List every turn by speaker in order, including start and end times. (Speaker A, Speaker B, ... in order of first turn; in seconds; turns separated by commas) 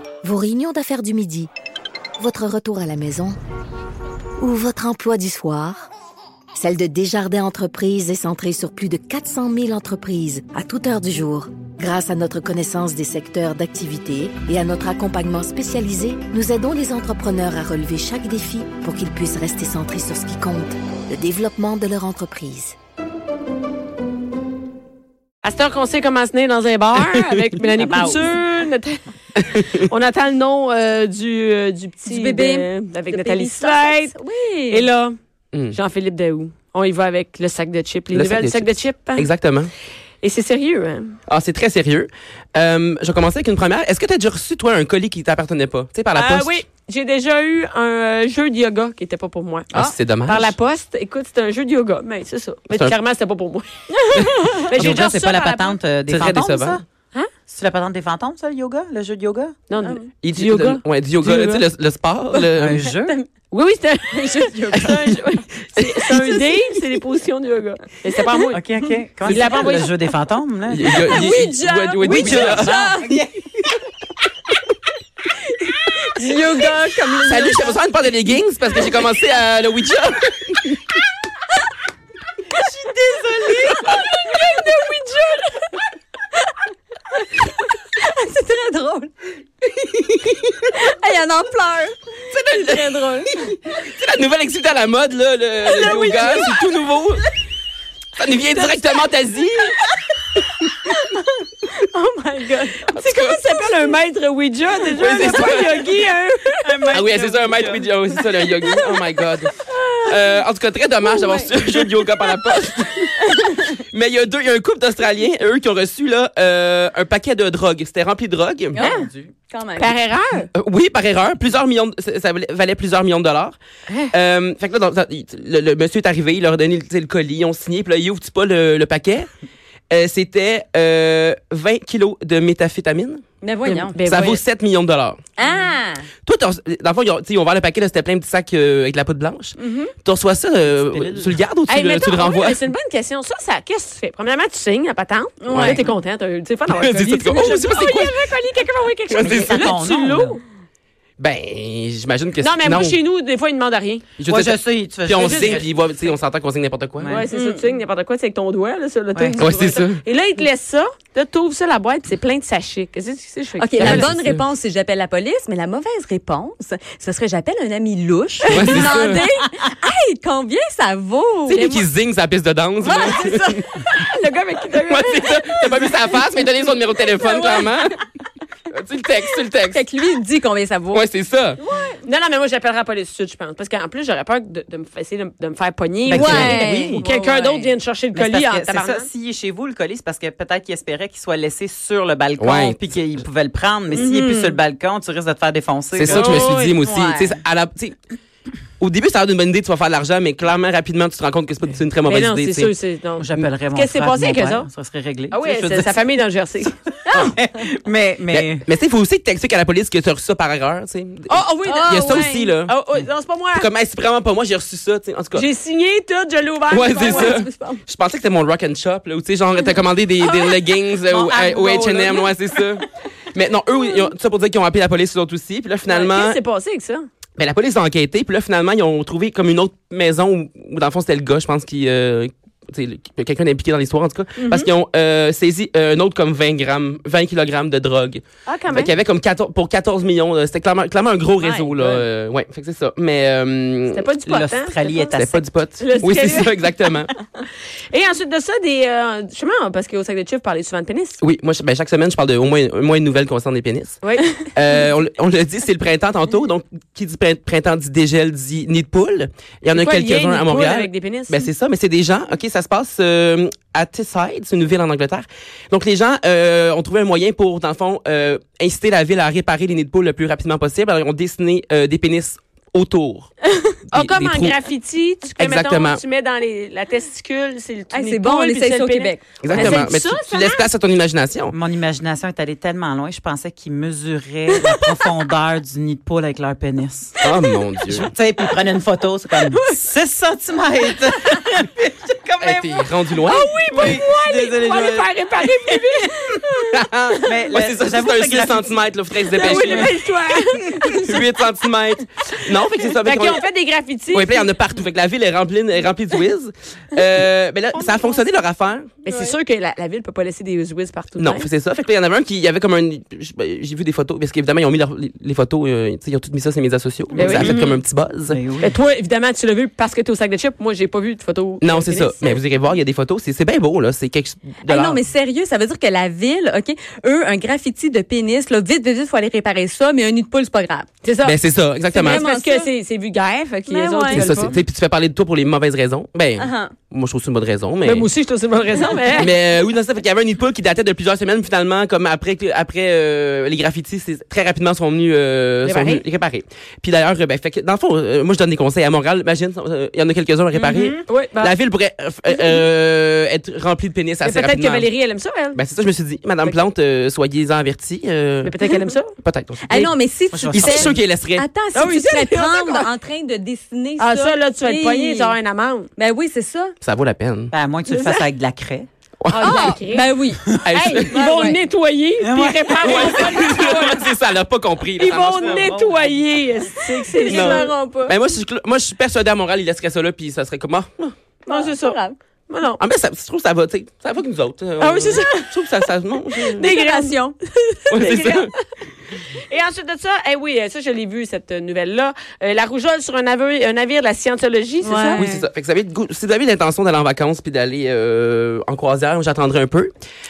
Speaker A: 0.2-1.5, Speaker A: 2.2-3.4, Speaker A: 4.4-5.9, Speaker A: 6.5-22.8, Speaker B: 25.4-34.1, Speaker C: 27.8-28.3, Speaker D: 32.0-34.9, Speaker B: 34.7-35.2, Speaker B: 35.7-39.3, Speaker E: 38.1-39.7, Speaker B: 40.2-41.2, Speaker E: 41.3-46.6, Speaker B: 46.1-55.8, Speaker E: 49.7-50.5, Speaker E: 52.7-53.0, Speaker D: 54.1-54.6, Speaker E: 54.2-54.5, Speaker C: 54.7-56.8, Speaker E: 56.1-56.8, Speaker C: 57.5-59.6, Speaker B: 59.7-61.7, Speaker E: 60.2-62.9, Speaker C: 62.5-63.1, Speaker B: 63.5-68.6, Speaker D: 64.1-65.2, Speaker E: 65.8-66.4, Speaker C: 68.5-71.4, Speaker B: 69.3-70.0, Speaker E: 70.7-72.9, Speaker D: 70.8-73.2, Speaker C: 72.0-73.6, Speaker D: 75.7-77.8, Speaker E: 77.2-80.8, Speaker C: 82.6-83.7, Speaker B: 83.9-85.6, Speaker D: 88.0-89.1, Speaker D: 89.8-93.5, Speaker E: 92.3-97.2, Speaker B: 95.7-96.7, Speaker D: 95.8-96.3, Speaker E: 98.2-99.8, Speaker B: 98.5-99.0, Speaker D: 101.9-102.8, Speaker B: 102.4-107.0, Speaker E: 102.9-103.5, Speaker E: 105.0-105.9, Speaker C: 106.7-107.8, Speaker E: 106.9-118.9, Speaker D: 111.0-111.5, Speaker D: 118.7-120.0, Speaker B: 118.8-119.1, Speaker C: 119.0-119.3, Speaker B: 119.8-120.5, Speaker E: 120.5-123.6, Speaker E: 124.1-129.3, Speaker E: 129.9-135.2, Speaker D: 133.4-134.0, Speaker B: 133.9-134.4, Speaker D: 135.4-136.1, Speaker E: 136.2-142.6, Speaker D: 139.6-139.9, Speaker C: 140.6-141.4, Speaker B: 141.7-150.4, Speaker D: 145.4-145.9, Speaker E: 145.5-145.8, Speaker E: 146.7-148.2, Speaker D: 147.2-148.1, Speaker E: 149.1-149.7, Speaker C: 149.2-150.3, Speaker E: 151.2-153.0, Speaker B: 152.4-154.1, Speaker E: 154.2-157.2, Speaker C: 154.2-155.7, Speaker B: 155.2-155.6, Speaker C: 157.0-157.3, Speaker B: 157.1-164.1, Speaker D: 157.3-157.7, Speaker C: 159.1-159.4, Speaker E: 159.4-160.0, Speaker D: 163.6-171.6, Speaker E: 163.8-164.4, Speaker B: 168.4-169.3, Speaker E: 168.5-169.3, Speaker E: 171.5-173.7, Speaker B: 171.5-171.9, Speaker B: 172.8-176.1, Speaker D: 172.9-173.3, Speaker E: 174.9-178.0, Speaker D: 177.2-177.7, Speaker E: 178.7-179.8, Speaker D: 179.7-181.1, Speaker E: 180.9-181.6, Speaker D: 181.6-182.0, Speaker B: 181.7-189.1, Speaker C: 186.1-187.0, Speaker D: 186.1-187.7, Speaker E: 186.2-187.0, Speaker C: 188.1-196.5, Speaker E: 192.4-192.9, Speaker D: 193.9-194.6, Speaker E: 195.9-198.0, Speaker B: 196.0-196.8, Speaker D: 196.8-197.4, Speaker E: 198.8-202.8, Speaker B: 202.0-204.7, Speaker C: 203.2-205.4, Speaker B: 205.3-206.7, Speaker E: 205.4-205.9, Speaker C: 207.2-208.7, Speaker E: 208.3-212.7, Speaker B: 211.3-213.7, Speaker D: 211.7-212.5, Speaker E: 213.6-215.5, Speaker B: 215.3-217.5, Speaker E: 216.7-226.4, Speaker D: 216.9-217.8, Speaker B: 220.3-220.6, Speaker C: 221.1-222.7, Speaker B: 225.9-227.1, Speaker E: 227.4-244.1, Speaker B: 234.4-234.7, Speaker B: 238.5-238.9, Speaker B: 241.4-242.1, Speaker B: 243.9-245.2, Speaker C: 244.2-245.4, Speaker E: 245.1-247.1, Speaker B: 245.8-246.6, Speaker B: 247.4-251.2, Speaker E: 251.2-254.0, Speaker B: 254.0-254.5, Speaker E: 254.5-273.3, Speaker B: 259.8-261.5, Speaker B: 273.6-280.6, Speaker E: 273.9-274.6, Speaker E: 275.4-276.0, Speaker D: 277.9-279.4, Speaker E: 279.4-281.6, Speaker C: 281.5-287.3, Speaker E: 287.2-288.1, Speaker C: 287.9-296.0, Speaker E: 292.4-293.5, Speaker B: 293.3-297.4, Speaker E: 296.7-300.0, Speaker C: 297.3-299.9, Speaker B: 299.4-301.2, Speaker E: 300.9-303.4, Speaker B: 302.9-304.5, Speaker E: 304.1-309.0, Speaker B: 309.0-311.5, Speaker D: 309.1-309.4, Speaker E: 311.2-318.4, Speaker C: 317.1-317.6, Speaker B: 317.1-317.6, Speaker D: 317.5-317.8, Speaker C: 318.3-318.7, Speaker B: 318.6-322.4, Speaker E: 321.6-325.0, Speaker D: 324.6-330.9, Speaker B: 331.0-331.4, Speaker E: 331.2-332.2, Speaker B: 331.9-334.6, Speaker D: 331.9-332.7, Speaker D: 333.7-334.5, Speaker E: 334.1-338.1, Speaker D: 336.4-336.7, Speaker B: 337.8-339.3, Speaker E: 339.2-354.9, Speaker B: 345.6-346.0, Speaker D: 350.6-351.0, Speaker B: 351.1-351.6, Speaker B: 354.2-355.6, Speaker E: 355.6-358.6, Speaker B: 358.4-359.1, Speaker E: 359.2-360.0, Speaker D: 359.6-365.4, Speaker C: 360.3-361.0, Speaker E: 360.5-361.5, Speaker B: 361.7-362.9, Speaker B: 364.0-365.9, Speaker D: 366.0-366.8, Speaker E: 366.8-367.5, Speaker C: 367.5-368.9, Speaker B: 367.9-368.3, Speaker E: 369.2-369.6, Speaker B: 369.3-374.1, Speaker D: 369.4-371.6, Speaker E: 370.7-371.2, Speaker C: 372.2-374.0, Speaker E: 372.8-375.6, Speaker B: 375.0-377.8, Speaker C: 375.2-376.4, Speaker D: 376.8-378.2, Speaker E: 377.2-381.1, Speaker D: 381.5-382.1, Speaker B: 381.5-382.8, Speaker E: 382.8-386.7, Speaker B: 384.8-385.8, Speaker B: 386.4-388.6, Speaker D: 386.6-387.4, Speaker E: 387.9-388.5, Speaker B: 389.4-395.2, Speaker D: 394.8-395.4, Speaker E: 395.2-399.9